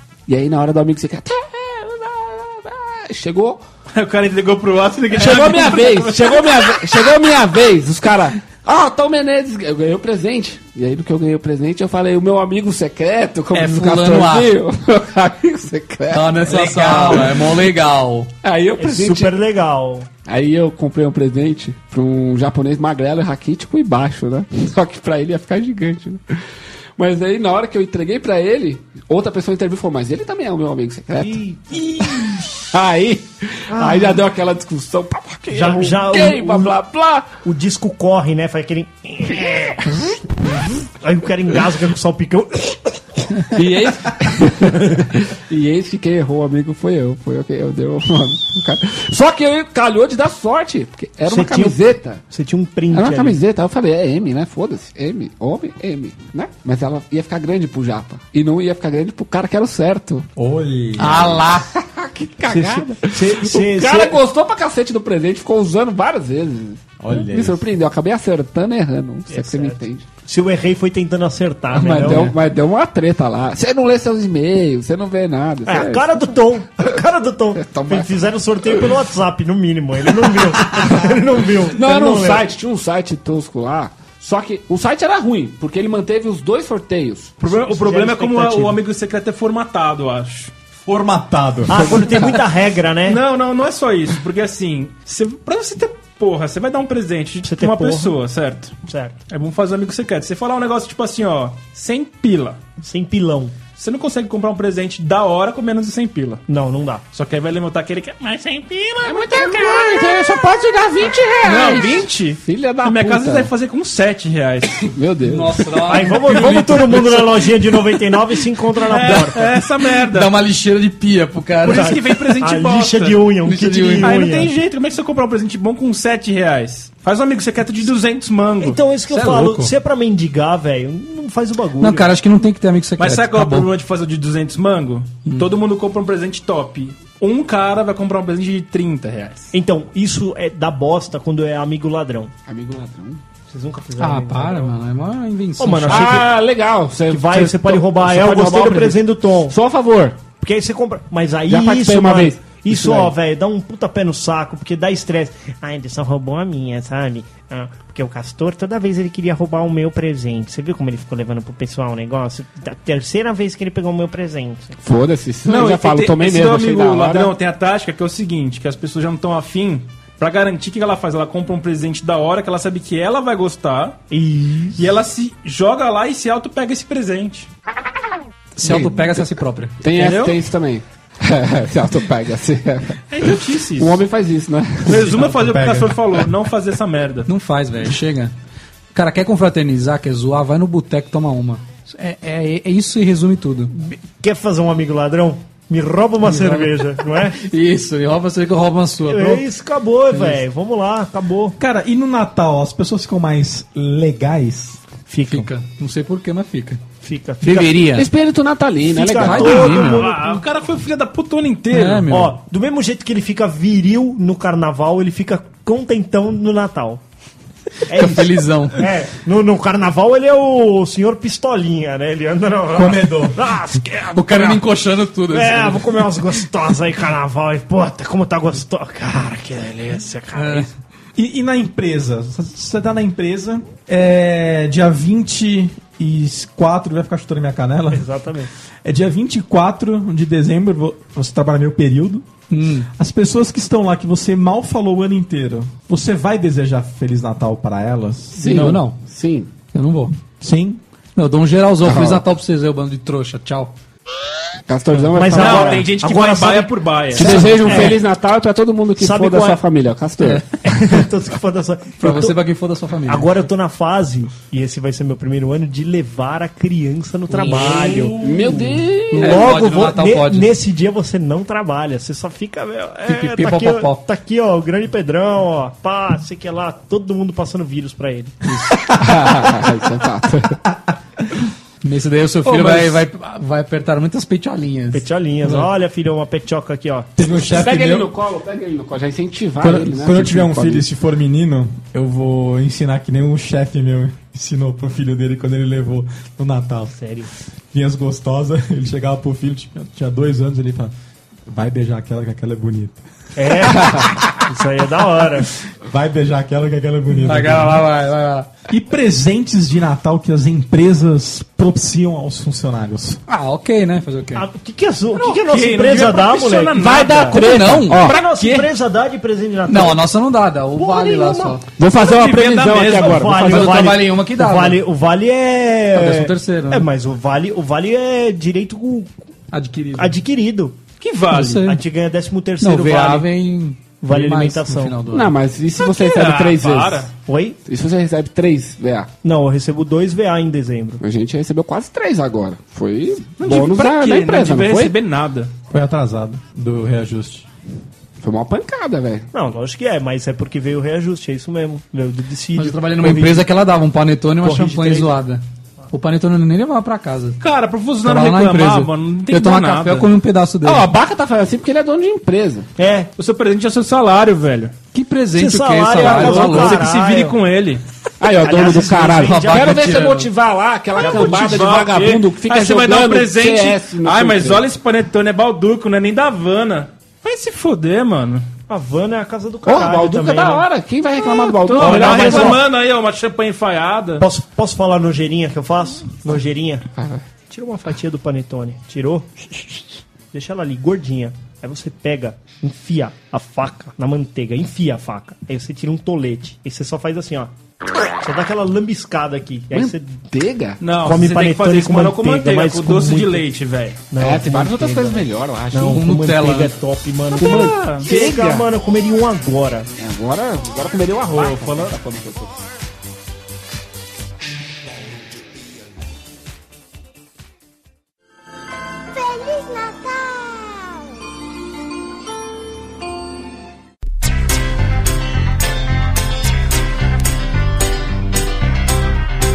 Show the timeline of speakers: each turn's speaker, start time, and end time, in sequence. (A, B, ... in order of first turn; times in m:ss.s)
0:00.3-0:03.6 A
0:03.9-0:07.1 B
0:05.1-0:17.6 A
0:13.5-0:14.5 C
0:16.1-0:18.3 C
0:16.5-0:17.3 D
0:18.4-0:19.4 A
0:18.8-0:20.1 E
0:20.2-0:26.4 A
0:27.0-0:32.1 A
0:31.2-0:31.7 E
0:32.1-0:32.4 D
0:32.7-0:37.3 A
0:33.7-0:34.2 E
0:35.5-0:36.8 E
0:37.4-0:39.9 E
0:41.0-0:43.6 E
0:43.5-0:52.2 A
0:51.3-0:53.4 E
0:52.9-1:00.3 A
1:00.4-1:01.4 D
1:01.0-1:01.7 C
1:01.5-1:10.1 A
1:02.5-1:04.2 E
1:07.0-1:07.7 D
1:09.3-1:12.3 E
1:11.7-1:16.4 A
1:12.0-1:12.3 C
1:15.7-1:22.5 E
1:17.6-1:18.3 A
1:20.2-1:21.1 A
1:21.6-1:27.4 A
1:27.4-1:30.5 B
1:27.4-1:28.8 E
1:30.8-1:32.2 D
1:31.7-1:33.2 E
1:33.1-1:38.8 B
1:37.4-1:38.2 E
1:38.9-1:39.2 E
1:39.3-1:42.6 B
1:42.8-1:43.6 E
1:43.8-1:46.4 B
1:46.5-1:47.0 E
1:47.1-1:50.1 B
1:49.0-1:53.5 A
1:51.4-1:54.9 B
1:54.9-1:55.7 A
1:55.2-1:57.2 C
1:55.9-1:59.5 E
1:56.0-1:56.9 B
1:58.9-2:00.3 B
1:59.1-2:02.4 C
2:01.6-2:03.4 B
2:01.7-2:04.5 E
2:03.5-2:04.2 C
2:04.0-2:09.7 B
2:08.6-2:12.1 E
2:09.1-2:09.6 C
2:11.8-2:13.7 C
2:13.0-2:19.5 B
2:15.3-2:15.5 C
2:19.5-2:22.3 E
2:22.5-2:23.2 A
2:23.5-2:24.7 E
2:24.0-2:26.2 C
2:25.6-2:26.3 E
2:25.9-2:30.2 A
2:27.1-2:29.6 E
2:30.4-2:44.8 E
2:31.5-2:33.1 A
2:44.8-2:47.3 A
2:45.4-2:54.0 B
2:54.1-2:54.8 E
2:54.8-2:57.5 B
2:58.6-2:59.8 C
2:58.6-2:59.2 A
2:59.8-3:05.2 A
2:59.9-3:00.4 B
3:03.1-3:04.0 B
3:04.9-3:07.3 B
3:04.9-3:06.0 D
3:07.3-3:08.3 C
3:08.9-3:13.7 C
3:13.7-3:17.4 E
3:16.2-3:19.4 C
3:19.1-3:21.6 E
3:20.1-3:20.4 C
3:21.6-3:24.8 D
3:25.1-3:25.5 E
3:25.3-3:26.8 C
3:27.0-3:27.9 E
3:27.4-3:28.1 C
3:28.0-3:29.9 A
3:28.9-3:30.4 E
3:29.2-3:30.0 C
3:29.5-3:32.1 B
3:31.7-3:32.4 C
3:32.1-3:37.0 E
3:37.9-3:44.6 E
3:38.0-3:38.9 C
3:42.7-3:43.5 D
3:44.1-3:46.3 C
3:45.3-3:50.7 E
3:50.3-3:50.7 C
3:51.2-3:58.1 D
3:57.9-3:58.5 E
3:58.8-4:02.3 D
4:02.5-4:02.9 C
4:03.0-4:08.7 D
4:08.4-4:09.5 A
4:08.5-4:09.0 C
4:09.7-4:10.2 C
4:10.4-4:10.8 D
4:11.2-4:13.7 C
4:11.8-4:12.2 A
4:14.7-4:15.9 A
4:14.9-4:18.0 E
4:15.3-4:18.0 B
4:17.1-4:20.4 A
4:19.0-4:19.6 E
4:20.2-4:21.0 C
4:20.6-4:22.4 E
4:22.0-4:23.3 C
4:23.1-4:28.2 E
4:27.3-4:30.5 C
4:27.5-4:28.8 D
4:28.2-4:29.5 A
4:29.1-4:38.4 E
4:33.1-4:34.0 C
4:38.5-4:38.9 C
4:38.8-4:40.6 A
4:41.8-4:45.7 C
4:44.9-4:47.1 E
4:47.2-4:48.1 D
4:47.4-4:50.8 A
4:49.6-4:57.0 D
4:57.0-4:57.3 E
4:57.7-5:00.9 D
5:01.5-5:03.0 D
5:03.4-5:05.5 E
5:03.8-5:04.1 A
5:05.8-5:07.8 D
5:07.2-5:08.5 C
5:08.7-5:13.2 D
5:13.3-5:14.4 C
5:14.4-5:17.4 E
5:15.2-5:17.5 B
5:16.8-5:18.2 A
5:17.3-5:18.6 C
5:17.9-5:20.1 E
5:19.7-5:21.6 C
5:20.8-5:21.6 E
5:21.8-5:23.8 A
5:21.9-5:23.6 B
5:22.7-5:29.2 E
5:23.4-5:24.8 C
5:25.9-5:26.9 C
5:29.5-5:30.2 C
5:30.0-5:30.8 E
5:31.0-5:31.6 B
5:31.3-5:31.8 C
5:31.5-5:33.3 E
5:32.6-5:35.3 C
5:34.0-5:35.0 E
5:35.1-5:37.1 A
5:35.8-5:37.1 B
5:37.3-5:37.6 E
5:37.7-5:39.1 A
5:39.2-5:41.0 E
5:41.0-5:45.0 A
5:43.4-5:45.5 B
5:45.7-5:47.5 D
5:48.2-5:49.3 A
5:49.3-5:53.5 E
5:52.6-5:57.4 C
5:54.4-5:55.1 E
5:57.4-6:00.1 B
5:58.0-6:00.9 C
6:00.6-6:02.7 A
6:02.8-6:03.1 E
6:03.2-6:04.8 B
6:04.9-6:06.9 C
6:05.4-6:07.4 E
6:05.9-6:07.8 B
6:08.2-6:14.7 A
6:08.4-6:10.2 E
6:09.1-6:10.3 C
6:11.0-6:11.5 E
6:11.0-6:18.5 B
6:18.7-6:20.7 E
6:19.7-6:22.6 A
6:21.5-6:24.2 B
6:21.7-6:22.6 E
6:24.2-6:26.9 E
6:26.9-6:27.2 A
6:27.5-6:29.4 E
6:30.3-6:37.5 E
6:38.2-6:40.2 E
6:39.7-6:40.8 A
6:40.8-6:44.0 B
6:41.0-6:43.5 E
6:44.1-6:49.9 E
6:44.2-6:46.0 A
6:45.9-6:46.7 C
6:47.4-6:48.7 A
6:47.5-6:48.3 B
6:50.0-6:52.6 A
6:51.3-6:51.9 B